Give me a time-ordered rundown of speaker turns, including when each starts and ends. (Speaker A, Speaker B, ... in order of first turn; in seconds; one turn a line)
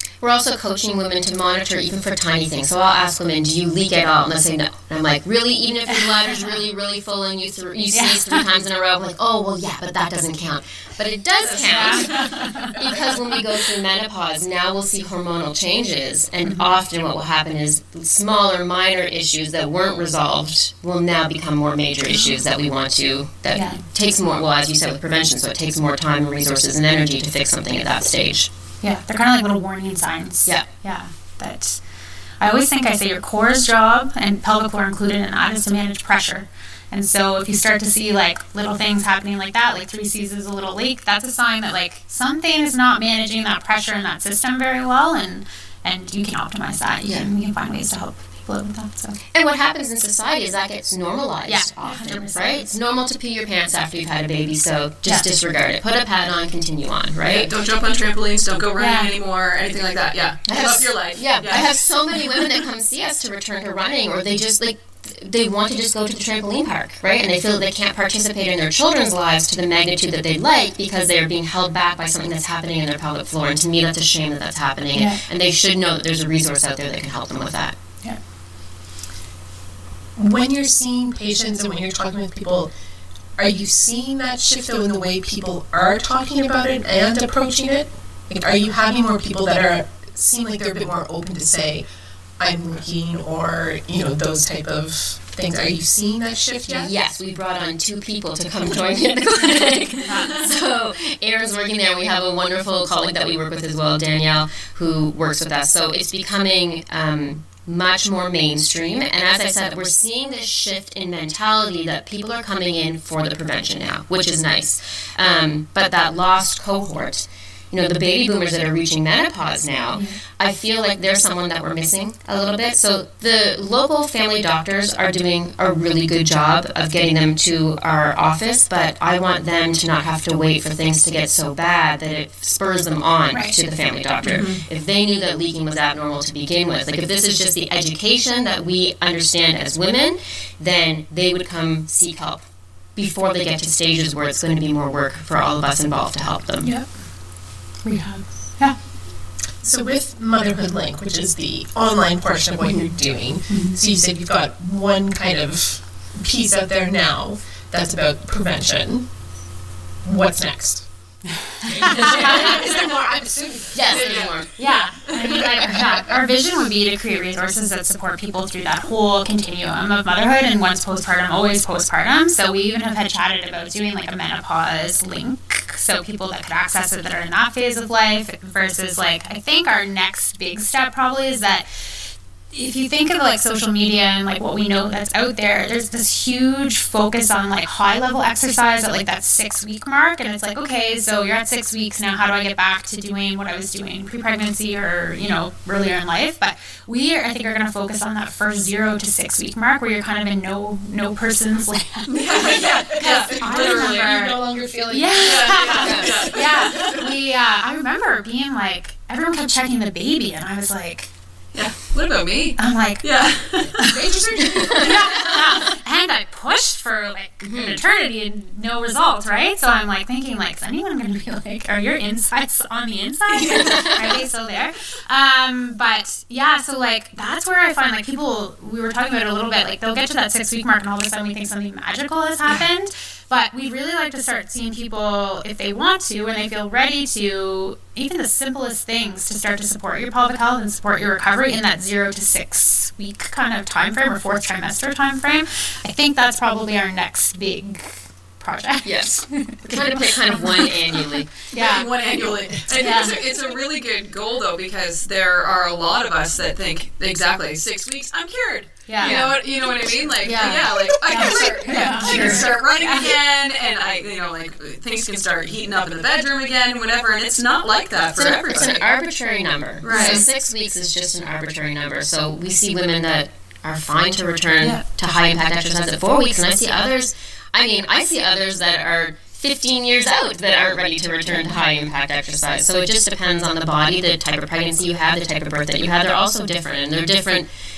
Speaker A: 0.2-28.5
Speaker B: 5.9-6.5
Speaker B: 7.9-8.4
Speaker C: 11.4-12.5
Speaker B: 11.5-12.7
Speaker B: 16.4-16.7
Speaker B: 23.5-23.8
Speaker B: 28.8-31.8
Speaker B: 32.4-49.2
Speaker A: 49.3-57.5
Speaker B: 51.5-52.7
Speaker C: 57.2-61.7
Speaker B: 58.8-59.1
Speaker A: 60.5-77.8
Speaker B: 74.9-75.2
Speaker D: 80.2-82.7
Speaker D: 83.4-91.9
Speaker D: 92.4-96.9
Speaker A: 96.7-142.4
Speaker B: 100.0-100.5
Speaker B: 119.9-120.2
Speaker B: 133.3-133.6
Speaker C: 134.2-134.6
Speaker A: 142.9-146.7
Speaker B: 146.6-146.9
Speaker B: 147.8-148.8
Speaker D: 149.6-159.1
Speaker A: 152.6-152.9
Speaker B: 153.5-153.8
Speaker D: 160.0-160.9
Speaker D: 161.7-164.3
Speaker B: 161.8-162.5
Speaker C: 161.9-162.5
Speaker A: 162.1-162.6
Speaker A: 163.7-164.5
Speaker C: 163.9-164.5
Speaker B: 164.5-211.1
Speaker C: 202.1-204.1
Speaker D: 202.3-207.1
Speaker C: 205.2-207.0
Speaker A: 205.8-206.2
Speaker C: 211.5-213.8
Speaker B: 212.6-213.2
Speaker D: 213.8-215.4
Speaker B: 214.7-251.9
Speaker C: 214.8-215.4
Speaker A: 217.4-217.8
Speaker C: 223.3-224.1
Speaker A: 248.8-251.3
Speaker C: 251.5-268.8
Speaker D: 252.1-253.2
Speaker B: 252.8-253.2
Speaker B: 258.9-259.2
Speaker A: 259.0-259.4
Speaker D: 259.6-262.5
Speaker B: 260.2-263.1
Speaker A: 262.0-262.4
Speaker A: 268.1-287.5
Speaker C: 269.8-270.2
Speaker B: 269.9-270.2